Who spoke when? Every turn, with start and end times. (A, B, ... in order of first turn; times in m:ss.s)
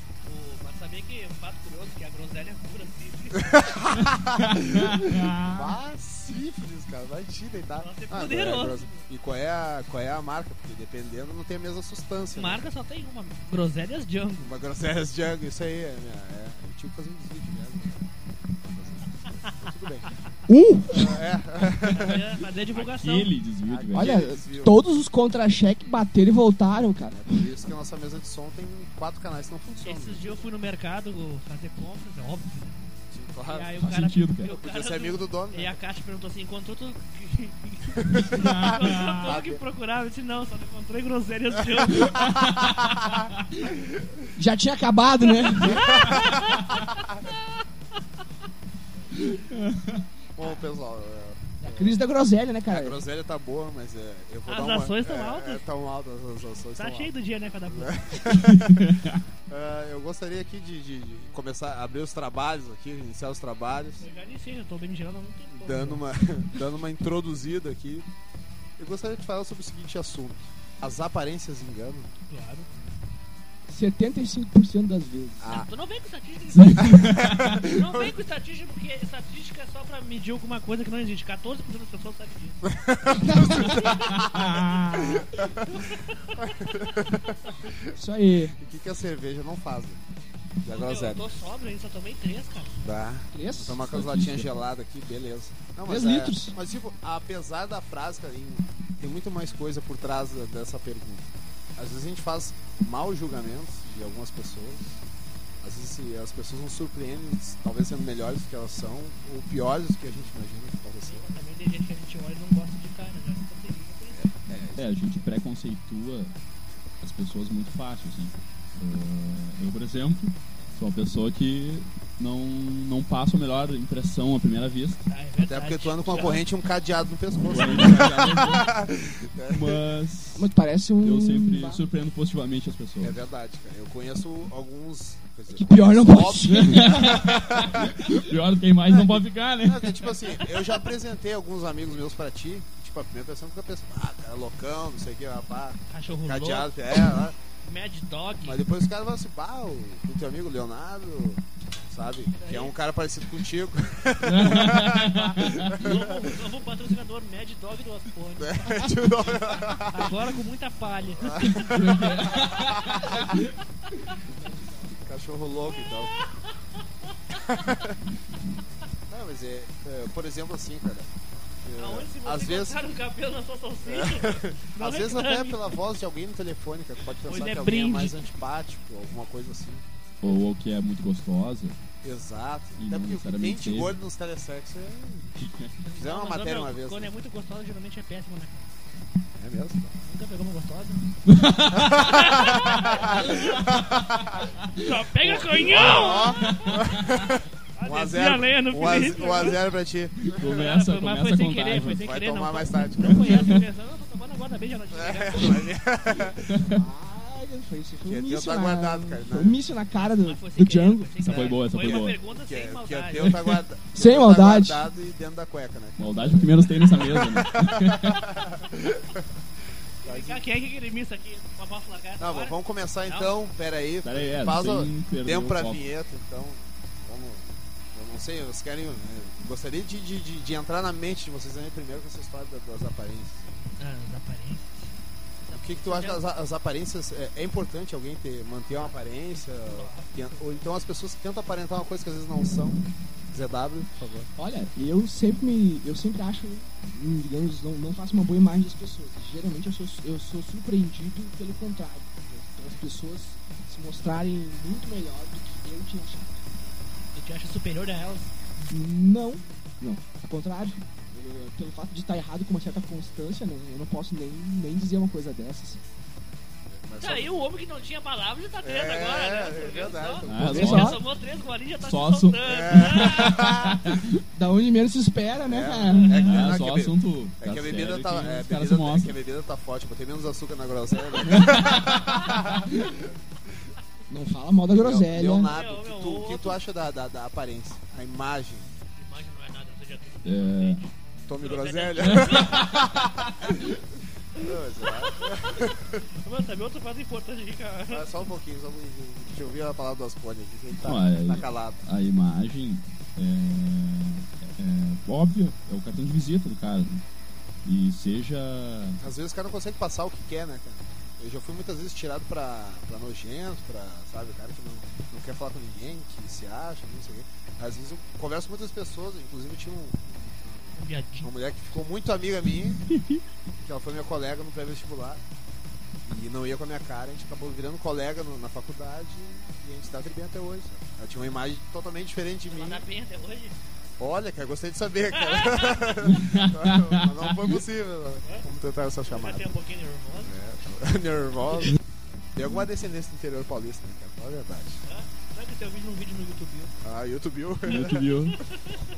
0:00.2-0:03.7 A
0:03.6-0:12.6 B
0:04.4-0:05.7 C
0:07.8-0:09.0 A
0:12.3-0:14.5 A
0:14.4-0:20.1 B
0:20.5-0:21.3 D
0:20.9-0:22.3 B
0:21.9-0:23.4 A
0:22.7-0:24.2 C
0:23.6-0:24.8 B
0:23.9-0:27.5 D
0:27.1-0:30.4 B
0:29.8-0:32.8 A
0:33.1-0:35.8 B
0:33.5-0:42.8 A
0:33.8-0:34.6 C
0:38.2-0:39.6 B
0:38.2-0:39.4 C
0:42.1-0:43.0 C
0:44.4-0:45.9 D
0:45.6-0:46.6 B
0:45.6-0:47.0 A
0:49.5-0:50.1 C
0:50.4-0:52.0 B
0:51.6-0:53.0 D
0:52.7-0:57.1 B
0:54.5-0:55.6 A
0:56.8-0:58.2 A
0:57.7-1:04.0 B
0:58.3-0:59.2 C
1:04.0-1:06.0 A
1:05.6-1:08.1 B
1:08.8-1:12.1 B
1:12.3-1:12.7 A
1:13.7-1:15.5 D
1:15.4-1:15.7 B
1:15.5-1:22.6 A
1:16.5-1:17.7 C
1:16.9-1:18.1 B
1:22.8-1:25.9 B
1:23.2-1:24.0 D
1:23.8-1:24.2 A
1:23.9-1:25.2 C
1:25.7-1:26.9 A
1:26.5-1:28.0 B
1:27.9-1:28.6 D
1:28.6-1:30.0 B
1:30.6-1:31.3 B
1:30.7-1:32.8 A
1:32.8-1:45.0 B
1:33.3-1:33.8 D
1:33.8-1:34.5 C
1:35.8-1:36.6 D
1:45.6-1:51.2 B
1:51.0-1:54.2 A
1:54.1-1:54.9 B
1:54.7-1:56.3 C
1:57.0-2:05.0 C
2:05.1-2:06.5 A
2:05.4-2:09.8 B
2:07.4-2:08.7 C
2:09.5-2:10.5 C
2:10.4-2:11.8 D
2:11.0-2:13.2 C
2:13.0-2:17.9 B
2:15.5-2:17.0 D
2:16.4-2:20.2 C
2:19.6-2:27.4 B
2:20.4-2:20.8 A
2:25.9-2:27.1 A
2:27.6-2:28.6 A
2:28.4-2:36.1 B
2:32.3-2:32.8 A
2:34.2-2:35.8 C
2:35.8-2:41.4 A
2:38.4-2:40.2 B
2:41.2-2:42.1 B
2:41.4-2:43.4 C
2:42.4-2:43.5 A
2:44.4-2:45.1 D
2:45.0-2:46.1 B
2:46.1-2:46.6 A
2:47.3-2:47.9 B
2:49.1-2:52.8 B
2:51.8-2:55.6 A
2:53.8-2:59.9 B
2:57.2-2:58.3 A
3:00.2-3:01.8 C
3:02.0-3:05.3 B
3:02.8-3:04.0 C
3:05.4-3:05.8 C
3:05.8-3:08.7 A
3:06.0-3:07.1 B
3:09.4-3:09.9 B
3:10.0-3:13.6 A
3:11.3-3:12.2 C
3:11.8-3:14.5 B
3:14.7-3:16.9 A
3:15.2-3:20.4 B
3:16.5-3:16.9 C
3:17.7-3:19.6 A
3:20.2-3:22.1 C
3:20.3-3:25.8 A
3:21.8-3:23.6 B
3:23.2-3:23.6 C
3:24.9-3:26.7 B
3:26.6-3:31.2 D
3:28.0-3:29.6 B
3:30.0-3:33.5 A
3:31.2-3:32.2 C
3:31.7-3:39.2 B
3:33.2-3:33.6 C
3:33.9-3:34.9 D
3:36.0-3:38.2 C
3:40.0-3:43.4 A
3:40.0-3:40.4 B
3:42.2-3:53.6 B
3:44.0-3:45.8 C
3:53.8-3:54.9 A
3:55.4-3:56.2 A
3:55.5-4:04.3 B
3:58.7-4:00.7 A
4:04.4-4:16.4 D
4:17.1-4:18.3 A
4:18.6-4:25.8 D
4:26.7-4:27.4 B
4:27.0-4:33.6 A
4:28.6-4:30.6 B
4:30.2-4:31.0 C
4:30.4-4:31.0 D
4:31.8-4:34.2 C
4:32.4-4:33.9 B
4:34.3-4:36.2 D
4:35.4-4:42.9 B
4:35.9-4:36.5 A
4:36.1-4:39.2 C
4:41.3-4:42.3 C
4:44.1-4:45.6 D
4:44.8-4:48.7 B
4:45.4-4:46.6 A
4:48.9-4:53.0 A
4:50.2-4:50.9 C
4:51.3-4:53.3 B
4:52.2-4:53.6 C
4:54.4-4:56.0 B
4:55.1-4:58.1 A
4:57.9-5:01.8 B
5:00.8-5:07.0 C
5:07.6-5:09.0 C
5:09.0-5:20.7 B
5:20.7-5:21.3 A
5:21.2-5:22.8 B
5:22.9-5:23.2 C
5:23.6-5:25.2 B
5:26.1-5:32.8 B
5:32.5-5:33.6 A
5:34.0-5:39.4 B
5:35.2-5:35.9 A
5:36.1-5:37.3 C
5:39.1-5:40.5 A
5:40.2-5:41.8 B
5:42.3-5:44.8 B
5:44.8-5:46.7 A
5:46.8-5:48.1 B
5:47.7-5:48.4 C
5:47.7-5:48.8 A